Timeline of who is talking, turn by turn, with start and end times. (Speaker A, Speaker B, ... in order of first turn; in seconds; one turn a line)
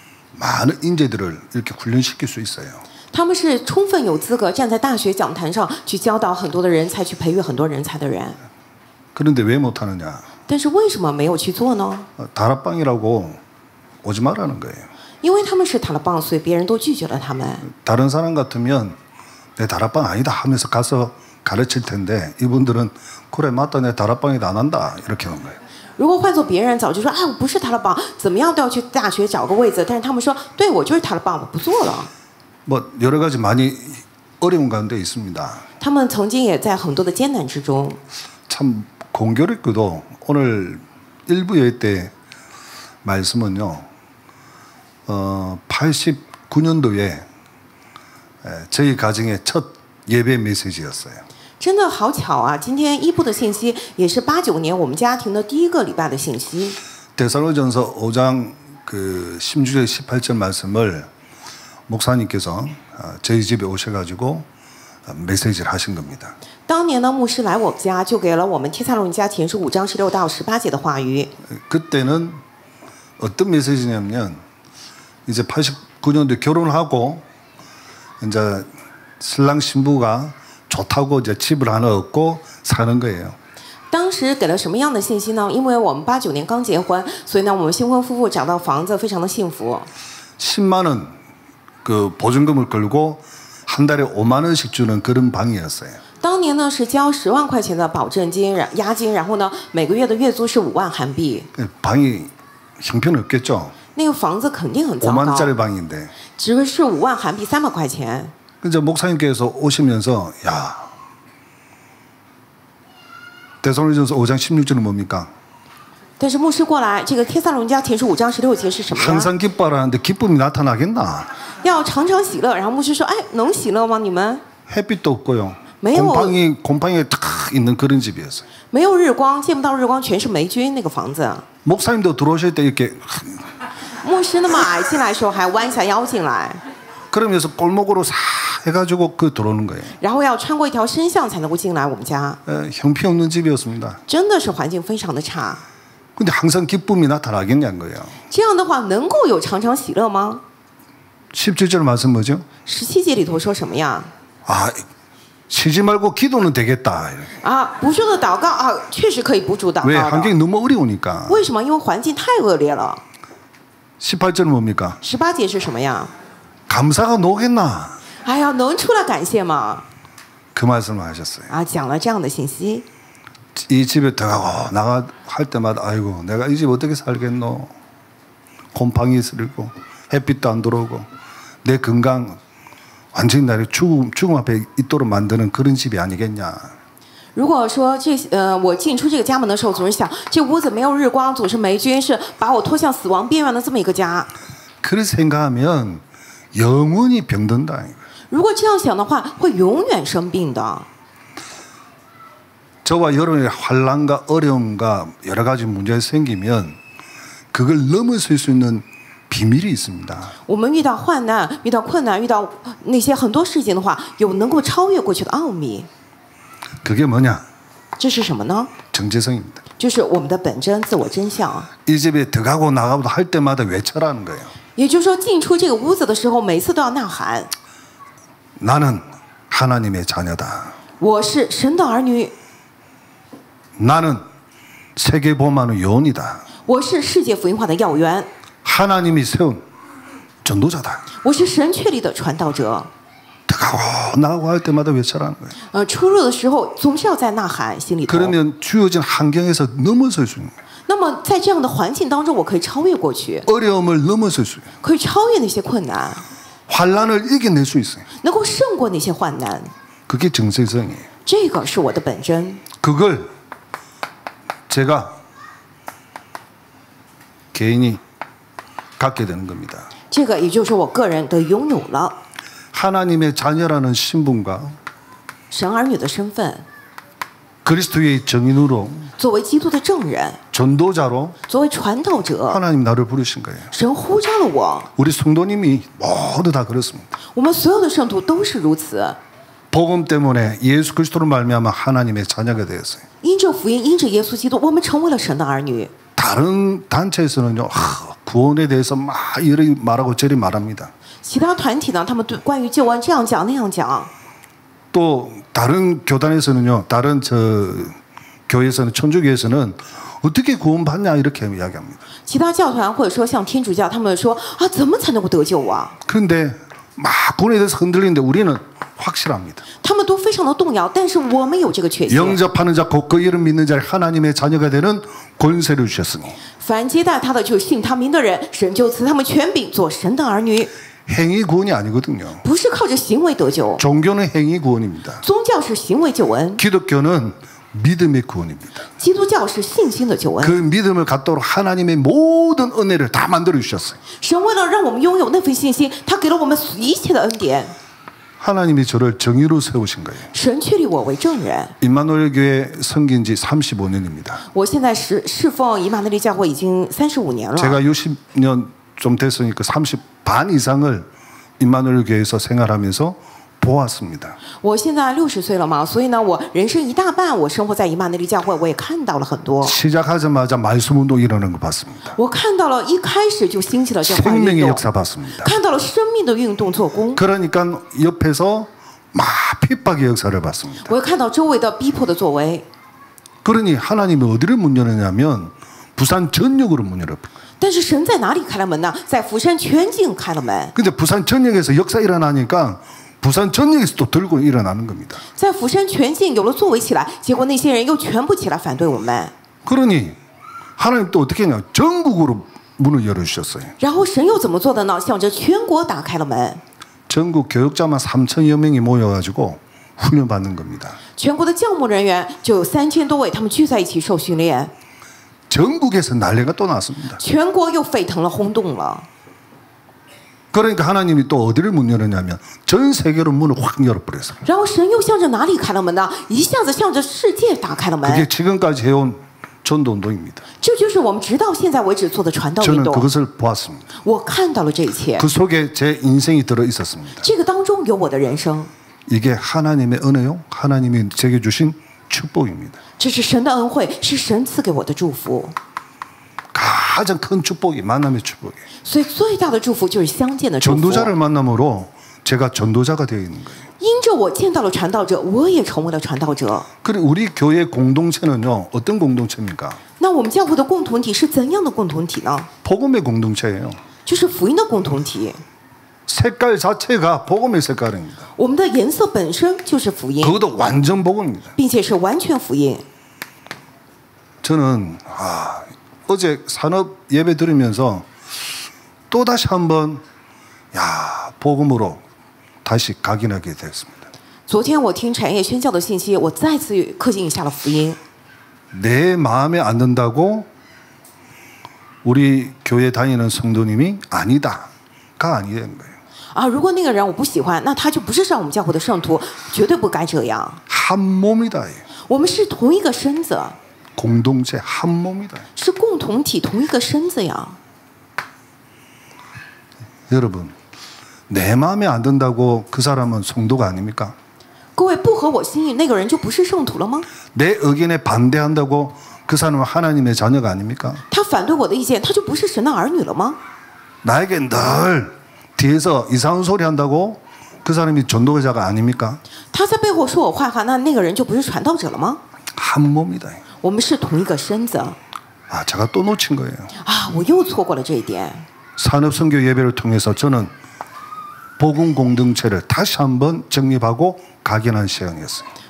Speaker A: 0.3-2.8
Speaker B: 3.1-8.4
Speaker A: 9.1-10.3
Speaker B: 10.5-12.1
Speaker A: 12.2-13.4
Speaker A: 14.0-14.9
Speaker B: 15.2-17.6
Speaker A: 17.6-19.0
Speaker A: 19.6-25.6
Speaker B: 26.0-32.1
Speaker A: 32.6-35.6
Speaker B: 35.8-38.0
Speaker A: 38.5-42.1
Speaker A: 43.0-43.9
Speaker A: 45.1-47.2
Speaker A: 48.4-51.2
Speaker B: 51.6-56.8
Speaker A: 57.1-61.1
Speaker A: 61.9-64.5
Speaker A: 65.0-66.3
Speaker B: 66.7-71.3
Speaker A: 71.5-72.4
Speaker A: 73.2-74.4
Speaker A: 75.2-77.2
Speaker A: 78.2-78.7
Speaker A: 79.2-83.4
Speaker B: 83.9-89.9
Speaker A: 90.4-91.1
Speaker A: 91.8-96.0
Speaker B: 96.2-101.5
Speaker A: 101.5-103.8
Speaker B: 103.9-105.5
Speaker A: 105.0-106.1
Speaker B: 106.3-108.3
Speaker A: 108.6-110.9
Speaker A: 113.6-115.3
Speaker B: 116.2-119.3
Speaker A: 118.9-121.4
Speaker B: 121.6-124.4
Speaker A: 124.7-128.4
Speaker B: 125.8-126.3
Speaker B: 128.7-131.4
Speaker A: 131.6-133.5
Speaker B: 134.0-136.6
Speaker A: 137.1-140.0
Speaker B: 140.0-142.4
Speaker A: 142.4-144.0
Speaker B: 144.1-145.6
Speaker A: 146.2-148.2
Speaker B: 148.3-150.4
Speaker A: 151.3-152.5
Speaker B: 152.6-154.1
Speaker A: 154.4-154.8
Speaker A: 155.5-157.3
Speaker B: 157.4-160.3
Speaker A: 159.8-161.5
Speaker B: 161.3-163.0
Speaker A: 164.0-165.0
Speaker B: 165.0-166.1
Speaker A: 166.7-168.0
Speaker B: 168.2-169.8
Speaker A: 170.5-171.5
Speaker B: 171.5-172.8
Speaker A: 173.5-177.7
Speaker A: 178.7-181.1
Speaker A: 181.6-182.4
Speaker A: 183.1-186.7
Speaker B: 187.3-194.3
Speaker A: 194.8-196.0
Speaker A: 196.5-198.0
Speaker B: 198.3-200.9
Speaker A: 202.8-206.8
Speaker A: 207.5-210.3
Speaker B: 210.5-215.9
Speaker A: 216.8-217.4
Speaker B: 218.0-218.7
Speaker A: 218.9-219.6
Speaker B: 219.8-221.7
Speaker A: 221.8-224.5
Speaker B: 224.8-227.5
Speaker A: 228.6-230.8
Speaker B: 231.0-232.3
Speaker A: 233.8-234.2
Speaker A: 234.9-236.4
Speaker B: 236.7-238.3
Speaker A: 238.6-239.6
Speaker A: 240.4-241.0
Speaker B: 241.2-242.9
Speaker A: 243.5-245.6
Speaker B: 245.7-248.3
Speaker A: 248.1-250.5
Speaker B: 250.9-253.4
Speaker A: 253.4-254.7
Speaker B: 254.8-256.2
Speaker A: 256.7-258.1
Speaker B: 258.2-259.7
Speaker A: 260.1-261.1
Speaker B: 261.2-262.6
Speaker A: 262.8-263.3
Speaker A: 264.7-265.2
Speaker A: 267.5-268.0
Speaker A: 269.0-269.9
Speaker B: 270.1-272.2
Speaker A: 272.7-274.8
Speaker B: 275.5-276.6
Speaker A: 277.6-279.1
Speaker B: 279.2-280.4
Speaker A: 280.5-281.4
Speaker B: 281.5-282.6
Speaker A: 282.5-283.7
Speaker B: 283.7-284.9
Speaker A: 284.9-287.1
Speaker B: 287.3-289.2
Speaker A: 289.7-293.0
Speaker B: 293.2-295.9
Speaker A: 296.1-300.9
Speaker B: 301.2-304.1
Speaker A: 304.9-307.9
Speaker A: 308.5-312.0
Speaker B: 312.2-315.9
Speaker A: 316.1-319.6
Speaker B: 319.8-322.4
Speaker A: 322.1-326.4
Speaker B: 326.6-330.7
Speaker A: 331.1-332.4
Speaker B: 332.4-333.8
Speaker A: 333.8-335.2
Speaker B: 335.2-336.6
Speaker A: 336.6-338.9
Speaker B: 339.0-340.6
Speaker A: 340.4-344.0
Speaker B: 344.2-347.7
Speaker A: 348.4-350.3
Speaker B: 350.3-351.7
Speaker A: 351.8-354.4
Speaker B: 354.5-357.8
Speaker A: 357.6-361.1
Speaker A: 361.6-364.4
Speaker B: 364.6-369.7
Speaker A: 369.6-372.1
Speaker B: 372.1-374.8
Speaker A: 374.0-375.5
Speaker B: 375.4-377.2
Speaker A: 377.1-380.9
Speaker B: 380.9-382.6
Speaker A: 383.4-387.3
Speaker B: 387.6-390.7
Speaker A: 390.7-395.2
Speaker B: 395.4-399.3
Speaker A: 399.6-400.2
Speaker A: 400.8-403.8
Speaker B: 403.8-406.6
Speaker A: 407.1-411.0
Speaker B: 411.1-414.7
Speaker A: 415.5-417.2
Speaker B: 417.2-419.1
Speaker A: 420.5-424.4
Speaker B: 424.4-428.2
Speaker A: 428.0-430.4
Speaker B: 430.6-433.1
Speaker A: 432.6-433.9
Speaker B: 434.0-435.2
Speaker A: 435.2-437.3
Speaker B: 437.2-438.7
Speaker A: 439.1-442.8
Speaker B: 443.0-445.6
Speaker A: 446.5-448.6
Speaker B: 448.8-451.1
Speaker A: 450.6-453.6
Speaker B: 453.8-456.7
Speaker A: 456.8-459.8
Speaker B: 460.0-462.5
Speaker A: 462.6-463.8
Speaker B: 464.0-465.4
Speaker A: 466.1-468.3
Speaker B: 468.4-470.4
Speaker A: 470.2-471.5
Speaker B: 471.6-472.8
Speaker A: 474.4-478.4
Speaker A: 479.1-480.0
Speaker A: 480.7-482.0
Speaker A: 482.6-484.0
Speaker B: 484.5-488.0
Speaker A: 488.7-490.5
Speaker A: 492.0-495.9
Speaker B: 496.3-500.6
Speaker A: 500.7-501.8
Speaker B: 502.1-503.6
Speaker A: 504.0-505.5
Speaker B: 505.6-507.6
Speaker A: 510.1-510.5
Speaker A: 511.3-514.1
Speaker B: 514.8-517.1
Speaker A: 517.3-521.0
Speaker B: 521.1-523.4
Speaker A: 524.0-529.2
Speaker B: 529.5-532.2
Speaker A: 532.5-533.4
Speaker B: 533.6-535.0
Speaker A: 535.5-536.7
Speaker B: 536.8-538.5
Speaker A: 538.8-540.5
Speaker A: 541.6-545.5